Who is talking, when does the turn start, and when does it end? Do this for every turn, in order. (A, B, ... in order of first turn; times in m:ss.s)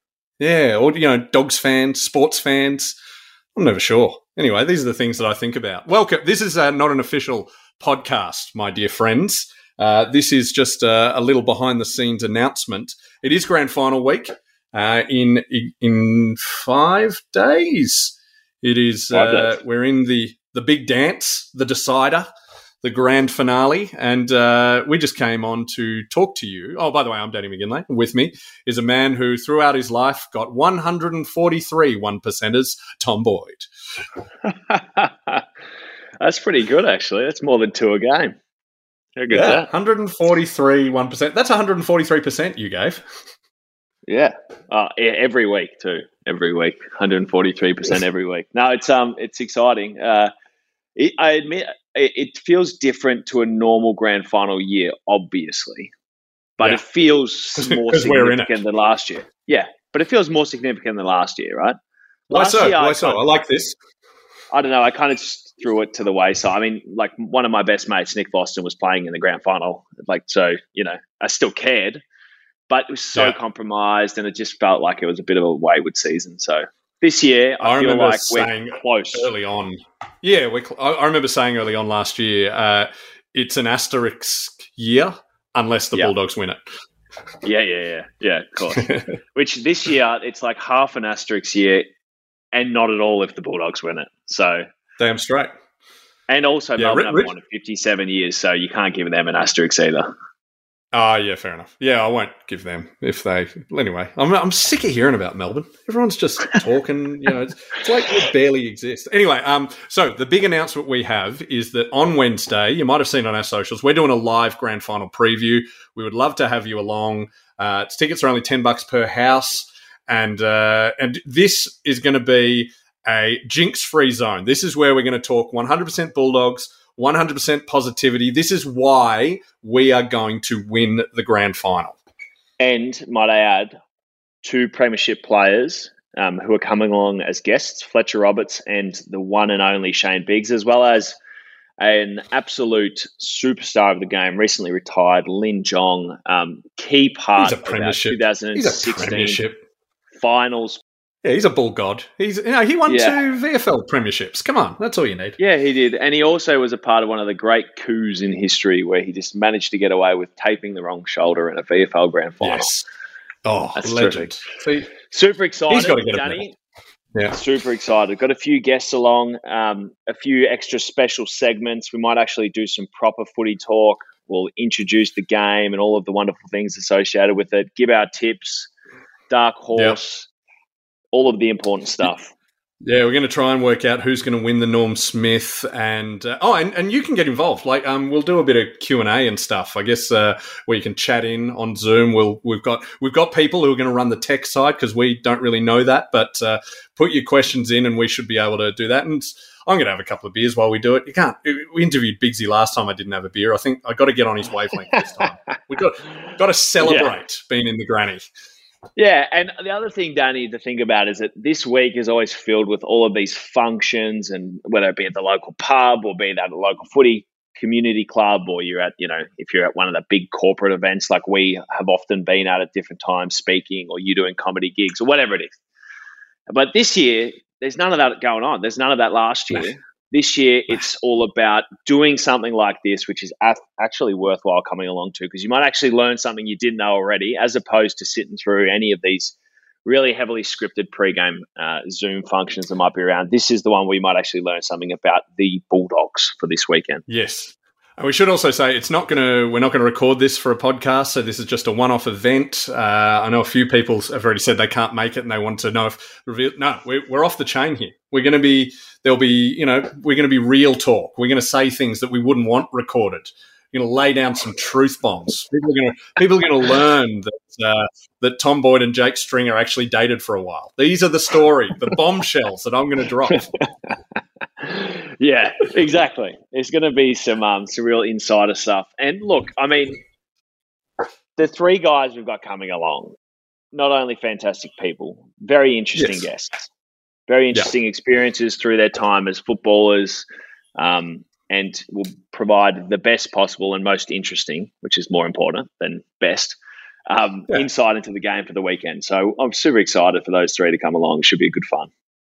0:00.4-0:02.9 A
0:03.5-0:22.3 A
0:19.1-0:19.6 B
0:22.8-0:33.7 A
0:34.5-0:35.4 B
0:36.2-0:38.3 B
0:39.2-0:39.7 B
0:39.3-0:43.0 A
0:44.1-0:50.3 B
0:51.0-0:55.9 B
0:56.6-1:01.8 B
0:57.6-0:58.6 A
1:02.3-1:03.8 A
1:02.3-1:03.2 B
1:04.5-1:12.0 B
1:12.7-1:19.3 B
1:17.6-1:26.6 A
1:27.4-1:31.8 B
1:28.8-1:29.0 A
1:32.5-1:34.6 B
1:35.0-1:35.5 A
1:36.3-1:40.1 B
1:36.8-1:37.3 A
1:40.9-2:12.0 A
2:12.6-2:13.7 B
2:14.4-2:21.2 B
2:21.8-2:29.4 B
2:27.4-2:29.6 A
2:30.1-2:30.8 B
2:31.2-2:35.4 A
2:32.9-2:33.2 B
2:35.4-2:42.8 B
2:42.4-2:42.8 A
2:43.4-2:44.9 A
2:43.8-2:44.4 B
2:45.1-2:46.6 B
2:45.7-2:46.4 A
2:47.3-2:58.7 B
2:59.3-3:00.3 B
3:01.1-3:02.3 B
3:02.8-3:28.2 A
3:24.9-3:25.3 B
3:26.8-3:27.1 B
3:29.0-3:45.5 B
3:46.5-4:07.0 B
4:07.1-4:33.5 A
4:33.3-4:33.6 B
4:34.6-4:40.0 B
4:41.4-4:43.1 B
4:43.7-4:46.7 B
4:46.0-4:46.3 A
4:47.3-4:56.6 B
4:57.1-5:01.9 B